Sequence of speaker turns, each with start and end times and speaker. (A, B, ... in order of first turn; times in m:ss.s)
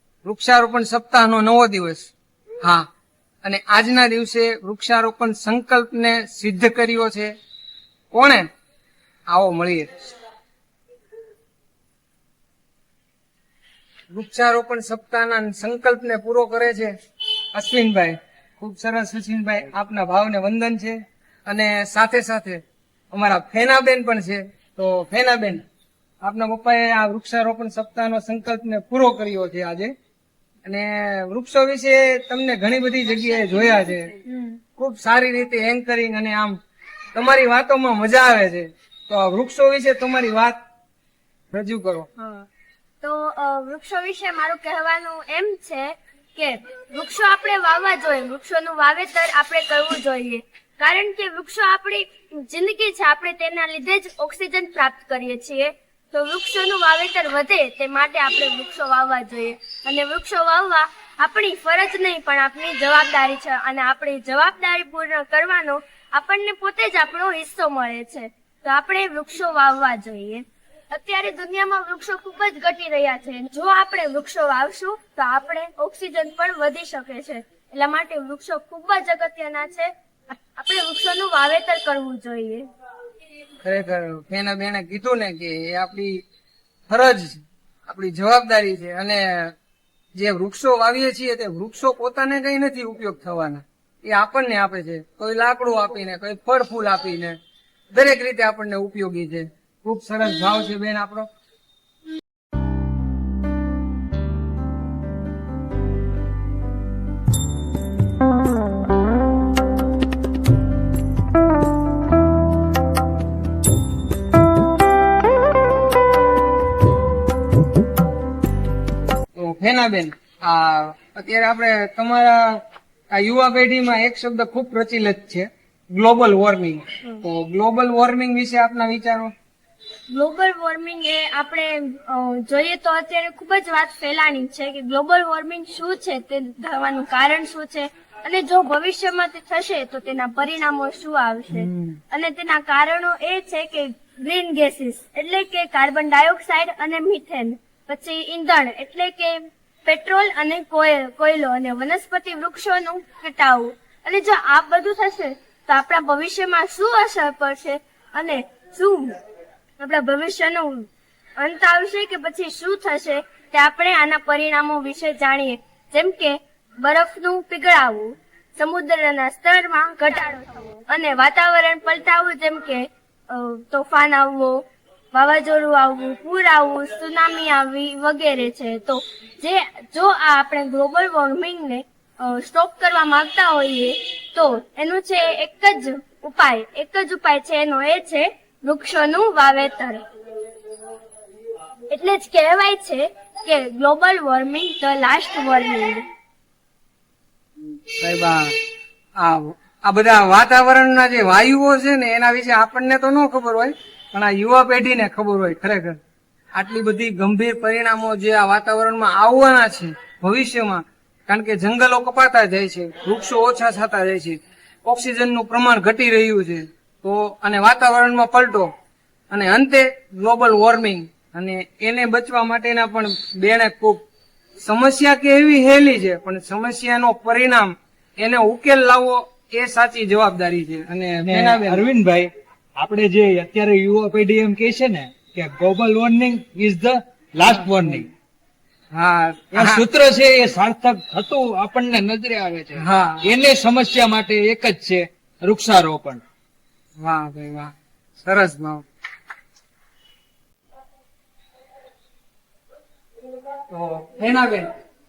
0:00.2-0:02.9 A
0:03.4-0:07.3 A
0:08.1-0:08.5 A
0:09.3-0:10.1 A
0:14.1-0:16.9 A
0:17.5-0:25.6 A
0:26.2-0:29.9 A
0:30.7-0:34.2 A
0:34.2-0:34.6 B
0:34.8-0:36.6 A
0:37.1-0:40.6 A
0:41.5-0:42.1 A
0:42.2-0:42.5 B
0:43.0-1:22.7 B
1:23.6-1:26.2 A
1:26.9-1:29.5 A
1:30.2-1:37.4 A
1:37.9-1:41.3 A
1:59.4-2:09.3 A
2:10.1-2:39.2 B
2:21.5-2:22.0 A
2:39.8-2:54.6 B
2:55.1-3:10.0 B
3:11.9-3:16.1 B
3:17.9-3:18.5 A
3:19.2-3:26.0 A
3:26.6-3:38.7 A
3:39.3-3:44.0 A
3:44.6-3:51.8 A
3:51.2-3:58.1 C
3:57.5-3:58.0 A
3:58.9-3:59.8 A
3:59.5-4:06.2 C
4:02.8-4:03.2 A
4:07.0-4:07.7 A
4:08.2-4:08.8 A
4:13.7-4:14.7 A